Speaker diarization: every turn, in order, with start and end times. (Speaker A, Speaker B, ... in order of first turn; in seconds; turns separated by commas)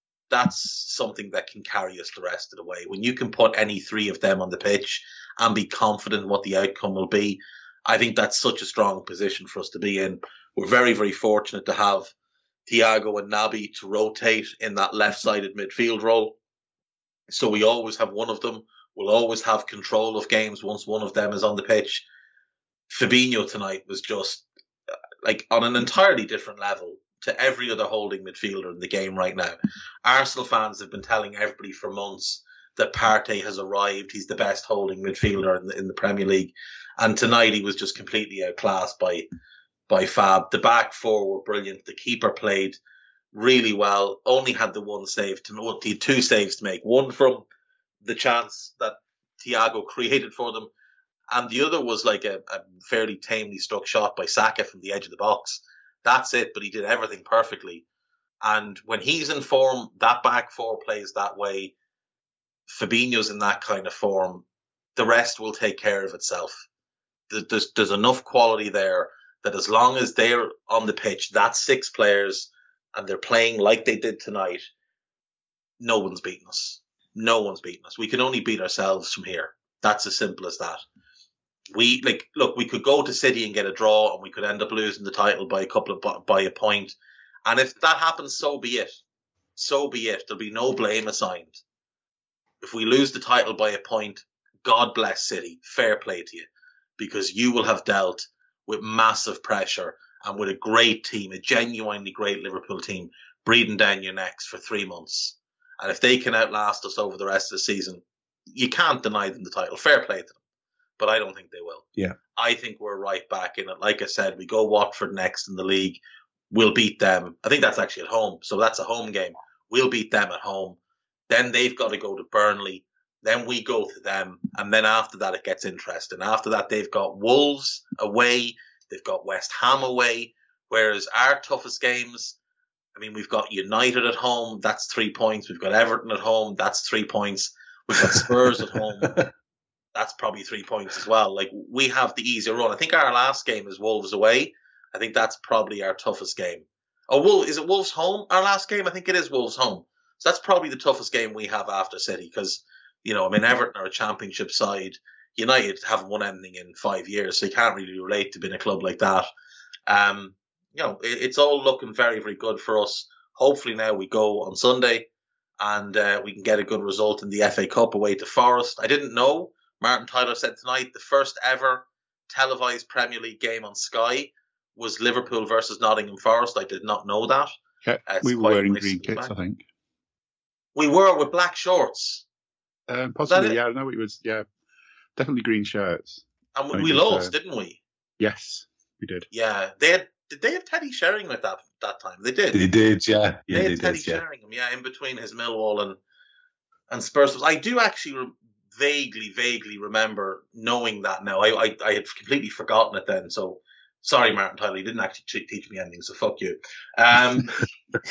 Speaker A: 0.3-12.1, Speaker A: 12.7-16.4, Speaker A: 17.3-22.1, Speaker A: 22.9-24.4, Speaker A: 25.2-39.3, Speaker A: 39.9-42.8, Speaker A: 43.3-47.5, Speaker A: 48.0-50.7, Speaker A: 51.3-57.8, Speaker A: 58.4-61.7, Speaker A: 62.7-64.4, Speaker A: 65.0-66.6, Speaker A: 67.3-74.6, Speaker A: 75.8-80.8, Speaker A: 81.7-89.0, Speaker A: 89.6-91.6, Speaker A: 92.6-96.5, Speaker A: 97.0-110.4, Speaker A: 111.0-116.0, Speaker A: 116.5-120.8, Speaker A: 121.3-132.4, Speaker A: 132.9-139.2, Speaker B: 138.0-138.5, Speaker B: 139.0-139.3, Speaker A: 139.9-159.3, Speaker A: 159.9-165.1, Speaker A: 165.6-177.5, Speaker C: 177.8-179.6, Speaker A: 178.1-179.3, Speaker A: 180.7-182.2, Speaker C: 182.9-184.4, Speaker A: 183.3-183.6, Speaker C: 185.2-187.3, Speaker A: 186.6-187.8, Speaker C: 188.2-189.3, Speaker A: 189.3-192.6, Speaker B: 192.5-194.2, Speaker A: 193.5-196.0, Speaker A: 196.9-207.6